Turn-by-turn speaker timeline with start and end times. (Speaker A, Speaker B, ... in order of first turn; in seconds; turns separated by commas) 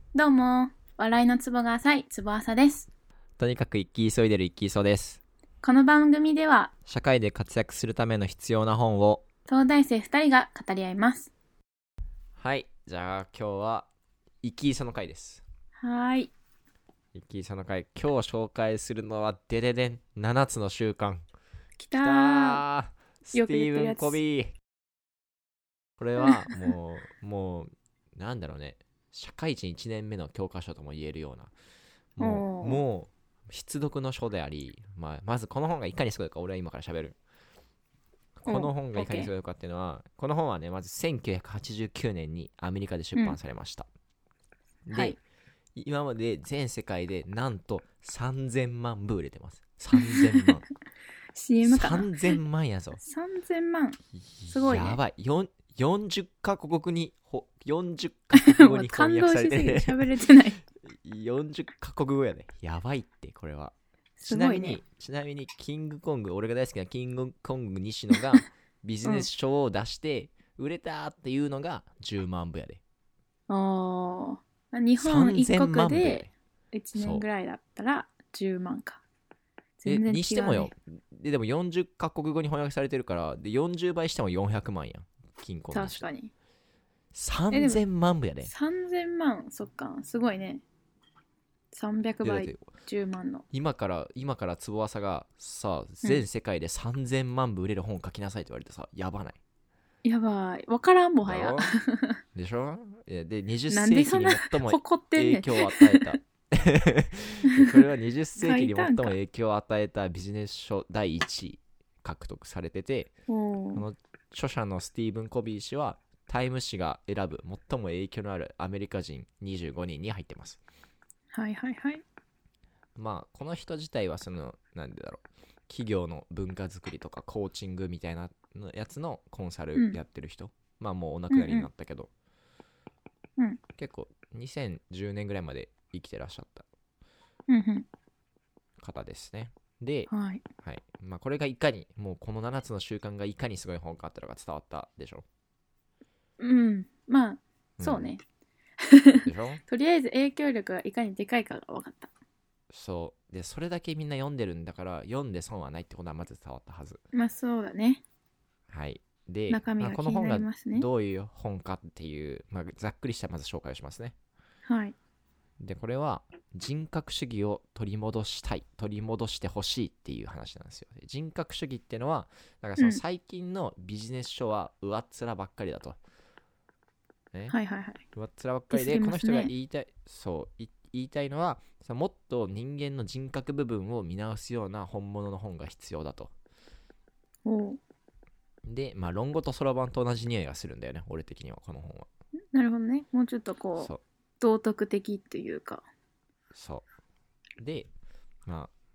Speaker A: 0.1-2.9, Speaker B: 3.4-5.2, Speaker A: 5.6-6.7, Speaker B: 6.9-9.2, Speaker A: 9.5-11.3, Speaker B: 12.4-13.9, Speaker B: 14.4-15.4, Speaker A: 15.8-16.3, Speaker B: 17.1-21.3, Speaker A: 21.8-22.6, Speaker B: 21.9-24.5, Speaker A: 23.3-24.2, Speaker B: 26.0-31.5, Speaker B: 32.2-37.2, Speaker A: 32.2-32.8, Speaker B: 38.4-43.9, Speaker A: 38.5-39.3, Speaker B: 44.9-45.2, Speaker B: 45.8-50.7, Speaker A: 51.3-52.4, Speaker B: 51.6-53.0, Speaker A: 53.0-55.0, Speaker B: 54.2-60.2, Speaker A: 58.4-60.6, Speaker B: 60.9-63.7, Speaker A: 64.2-64.8, Speaker B: 64.3-72.8, Speaker A: 73.5-79.0, Speaker B: 75.0-76.3, Speaker B: 77.0-77.3, Speaker A: 79.8-80.7, Speaker B: 79.8-86.0, Speaker A: 85.7-86.3, Speaker B: 87.1-88.5, Speaker A: 87.5-87.8, Speaker A: 88.5-90.6, Speaker A: 91.7-93.5, Speaker B: 92.2-92.7, Speaker B: 93.5-99.4, Speaker A: 100.0-102.2, Speaker B: 101.2-101.8, Speaker B: 102.3-113.1, Speaker A: 103.7-106.2, Speaker A: 107.5-107.8, Speaker A: 108.4-109.2, Speaker A: 113.3-113.8, Speaker B: 113.7-120.6, Speaker A: 121.3-122.0, Speaker B: 123.0-132.1, Speaker A: 129.8-130.0, Speaker A: 131.3-131.7, Speaker B: 133.8-136.7, Speaker A: 137.5-137.9, Speaker B: 138.8-140.1, Speaker A: 140.1-140.4, Speaker B: 140.6-145.2, Speaker A: 146.4-148.2, Speaker B: 147.8-148.1, Speaker A: 148.8-152.1, Speaker B: 149.2-149.6, Speaker B: 152.7-157.0, Speaker A: 157.1-158.0, Speaker B: 158.7-164.2, Speaker A: 159.5-160.9, Speaker A: 164.7-164.9, Speaker B: 165.6-176.0, Speaker A: 177.5-178.0, Speaker B: 178.1-186.3, Speaker A: 178.7-179.5, Speaker A: 187.4-187.8, Speaker B: 188.7-192.1, Speaker A: 192.5-195.8, Speaker B: 196.5-196.9, Speaker B: 197.6-197.9, Speaker B: 198.5-198.7